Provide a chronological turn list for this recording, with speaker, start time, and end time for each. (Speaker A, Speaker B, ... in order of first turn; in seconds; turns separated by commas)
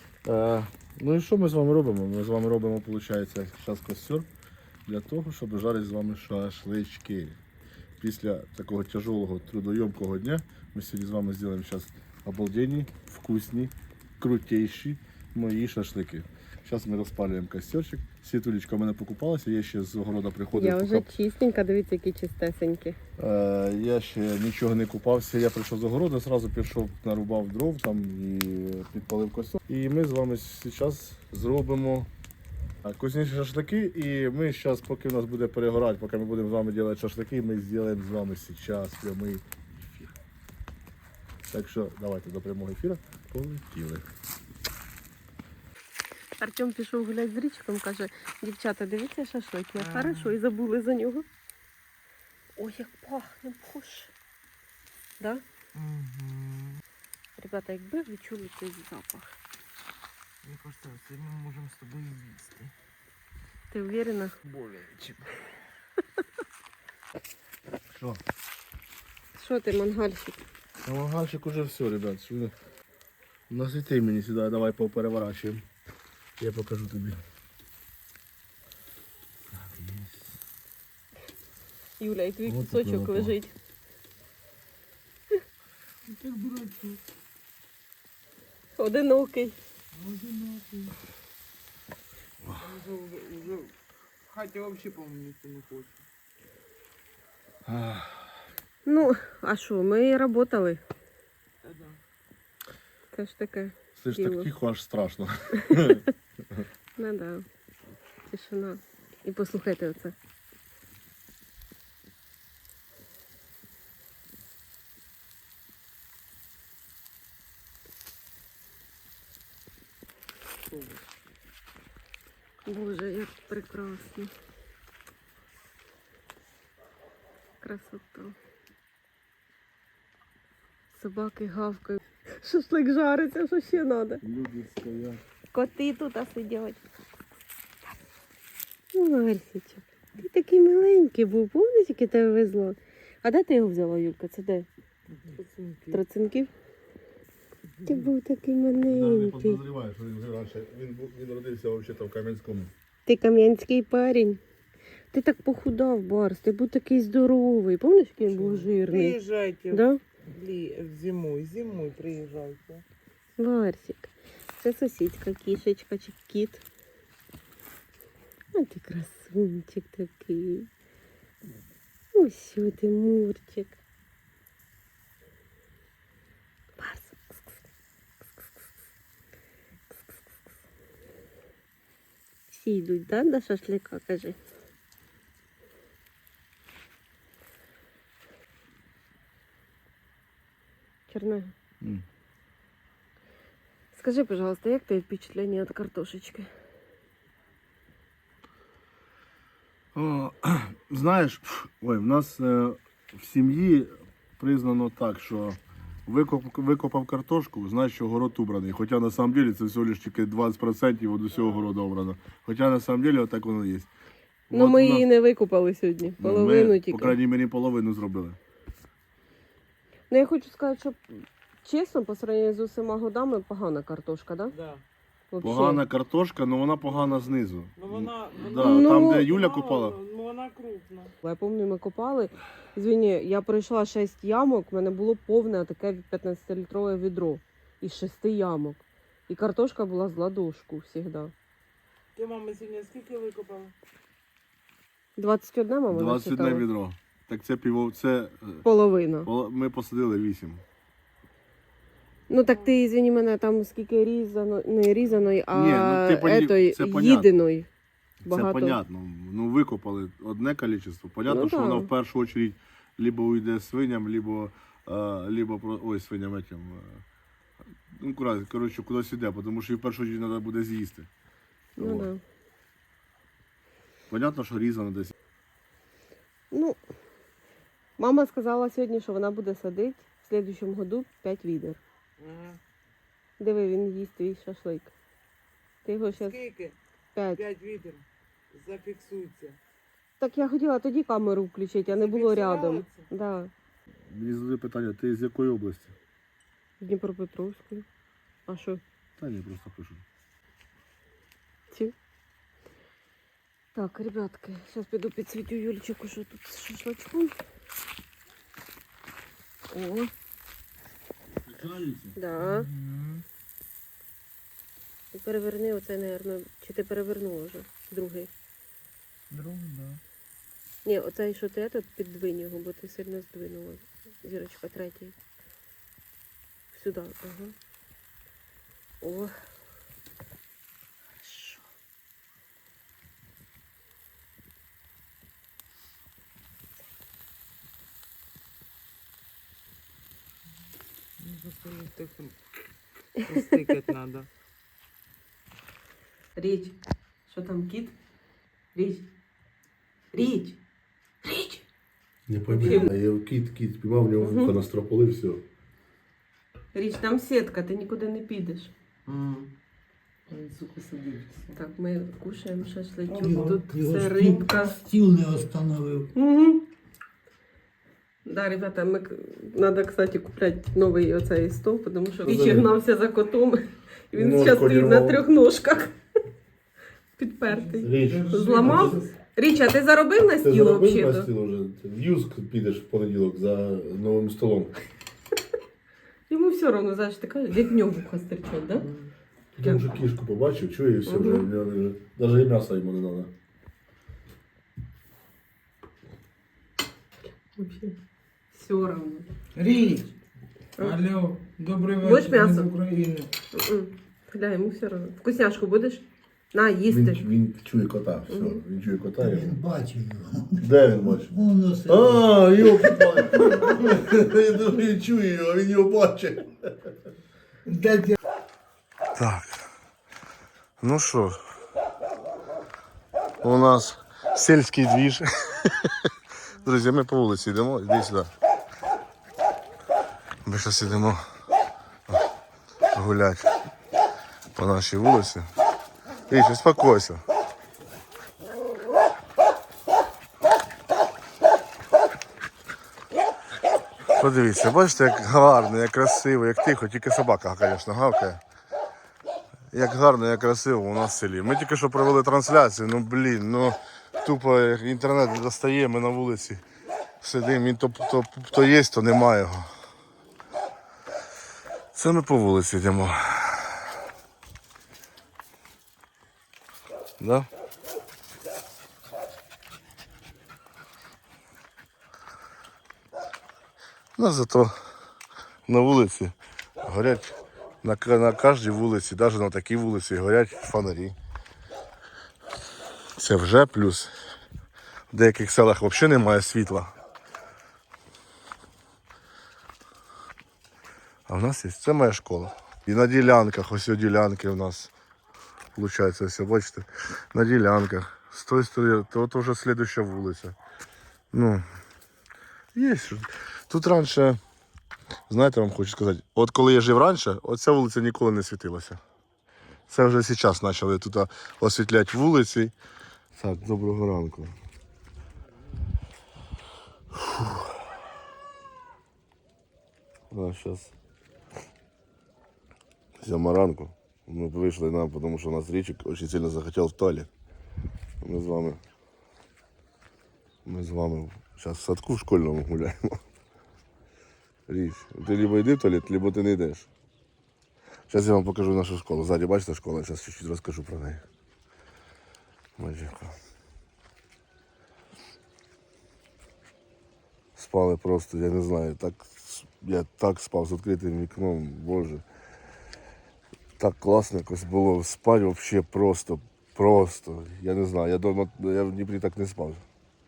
Speaker A: 0.2-4.3, Speaker A: 4.9-7.4, Speaker A: 8.0-21.1, Speaker B: 20.6-23.0, Speaker A: 23.2-32.1, Speaker A: 32.8-40.1, Speaker A: 41.5-44.0, Speaker B: 46.4-51.2, Speaker C: 49.8-50.4, Speaker B: 52.6-54.1, Speaker B: 55.2-55.4, Speaker C: 55.7-56.8, Speaker B: 57.4-59.3, Speaker C: 60.4-62.7, Speaker B: 63.7-64.4, Speaker C: 64.5-65.2, Speaker A: 67.9-68.2, Speaker B: 69.4-70.4, Speaker A: 70.8-72.5, Speaker A: 73.5-75.6, Speaker A: 76.4-77.2, Speaker A: 79.5-80.1, Speaker B: 82.0-83.5, Speaker A: 82.5-83.3, Speaker C: 86.1-87.0, Speaker B: 88.8-89.6, Speaker C: 89.9-91.0, Speaker C: 92.6-93.7, Speaker C: 94.3-96.0, Speaker A: 97.6-98.2, Speaker B: 98.9-100.8, Speaker C: 101.6-102.0, Speaker B: 103.1-104.5, Speaker A: 104.0-106.6, Speaker B: 105.6-106.0, Speaker B: 107.0-107.4, Speaker B: 108.3-110.2, Speaker C: 120.7-121.0, Speaker B: 122.7-124.3, Speaker B: 127.6-128.3, Speaker B: 130.9-134.2, Speaker A: 134.2-135.2, Speaker B: 135.5-136.8, Speaker B: 138.9-144.7, Speaker C: 145.2-146.0, Speaker B: 145.9-146.5, Speaker C: 147.8-148.1, Speaker B: 147.8-149.6, Speaker A: 148.9-152.7, Speaker B: 153.1-154.4, Speaker B: 155.1-159.2, Speaker C: 158.3-162.8, Speaker B: 159.7-160.0, Speaker B: 163.4-166.6, Speaker B: 168.5-170.7, Speaker B: 172.1-173.8, Speaker B: 176.8-177.5, Speaker B: 179.9-180.2, Speaker B: 182.5-184.4, Speaker B: 191.1-191.5, Speaker B: 193.9-196.5, Speaker A: 199.9-213.9, Speaker B: 214.5-217.2, Speaker A: 214.5-215.1, Speaker A: 216.2-218.4, Speaker B: 220.1-224.5, Speaker C: 224.5-224.8, Speaker B: 225.3-225.8, Speaker A: 225.4-230.0, Speaker C: 227.8-231.1, Speaker B: 228.6-229.3, Speaker B: 231.2-241.3, Speaker C: 242.2-243.7, Speaker B: 245.2-246.7, Speaker A: 245.9-248.7, Speaker B: 248.7-249.3, Speaker A: 249.2-250.6, Speaker B: 252.3-257.7, Speaker C: 252.5-252.8, Speaker A: 255.5-257.3, Speaker A: 258.2-267.0, Speaker B: 258.2-258.8, Speaker B: 261.2-261.9, Speaker A: 267.9-271.1, Speaker B: 271.8-272.2, Speaker A: 271.8-272.1, Speaker A: 274.1-275.1, Speaker B: 276.5-276.8, Speaker B: 278.0-281.8, Speaker C: 282.2-282.6, Speaker B: 283.4-284.9, Speaker B: 285.9-286.4, Speaker C: 286.2-286.8, Speaker B: 287.1-287.4, Speaker C: 287.3-289.6, Speaker B: 290.2-293.5, Speaker C: 291.9-293.1, Speaker A: 294.1-295.9, Speaker B: 296.8-297.9, Speaker B: 298.5-298.8, Speaker A: 299.2-300.0, Speaker B: 303.8-307.3, Speaker B: 309.7-310.1, Speaker A: 311.5-312.1, Speaker B: 312.1-312.7, Speaker C: 312.4-313.2, Speaker B: 315.1-318.3, Speaker C: 319.3-320.0, Speaker B: 320.9-325.1, Speaker B: 326.7-327.5, Speaker B: 329.0-329.3, Speaker B: 331.2-331.6, Speaker C: 341.2-342.4, Speaker C: 343.2-344.3, Speaker B: 346.4-346.8, Speaker B: 347.3-347.9, Speaker B: 348.7-349.1, Speaker B: 350.1-350.6, Speaker B: 351.2-351.6, Speaker A: 352.3-355.4, Speaker B: 352.6-352.9, Speaker B: 354.2-354.6, Speaker B: 356.7-358.7, Speaker C: 359.1-359.5, Speaker C: 360.3-361.6, Speaker B: 361.5-364.8, Speaker C: 363.1-363.6, Speaker D: 363.2-366.1, Speaker B: 366.1-366.6, Speaker B: 368.2-375.9, Speaker C: 372.2-372.6, Speaker A: 372.2-372.7, Speaker A: 374.1-375.2, Speaker B: 377.2-381.3, Speaker C: 377.5-379.1, Speaker A: 377.8-379.0, Speaker A: 380.4-384.7, Speaker B: 386.3-388.9, Speaker C: 388.8-389.1, Speaker A: 389.6-393.3, Speaker B: 391.1-391.5, Speaker B: 397.6-397.9, Speaker B: 398.5-399.3, Speaker C: 399.5-400.1, Speaker C: 400.8-403.3, Speaker B: 402.0-402.7, Speaker B: 403.5-407.2, Speaker A: 406.9-409.6, Speaker B: 408.3-408.6, Speaker D: 409.2-413.6, Speaker A: 410.6-411.3, Speaker A: 411.9-416.9, Speaker D: 417.7-418.1, Speaker A: 419.1-419.6, Speaker A: 420.8-421.4, Speaker A: 423.4-428.3, Speaker A: 430.4-431.2, Speaker A: 432.9-433.5, Speaker A: 434.5-435.5, Speaker A: 436.3-437.2, Speaker A: 444.2-448.4, Speaker A: 449.7-456.6, Speaker A: 457.2-459.7, Speaker A: 461.9-463.9, Speaker A: 467.2-467.5, Speaker A: 474.2-474.8, Speaker A: 475.7-481.1, Speaker A: 483.2-484.1, Speaker A: 485.1-486.9, Speaker A: 491.3-494.9, Speaker A: 495.8-500.6, Speaker A: 501.3-501.6, Speaker A: 502.8-504.4, Speaker A: 505.3-509.0, Speaker A: 509.9-512.7, Speaker A: 513.4-514.5, Speaker A: 517.1-517.8, Speaker A: 520.3-520.9, Speaker A: 523.2-527.3, Speaker A: 528.2-528.8, Speaker A: 530.6-533.2, Speaker A: 534.7-536.9, Speaker A: 538.1-541.2, Speaker A: 542.8-543.4, Speaker A: 547.6-552.2, Speaker A: 553.8-559.8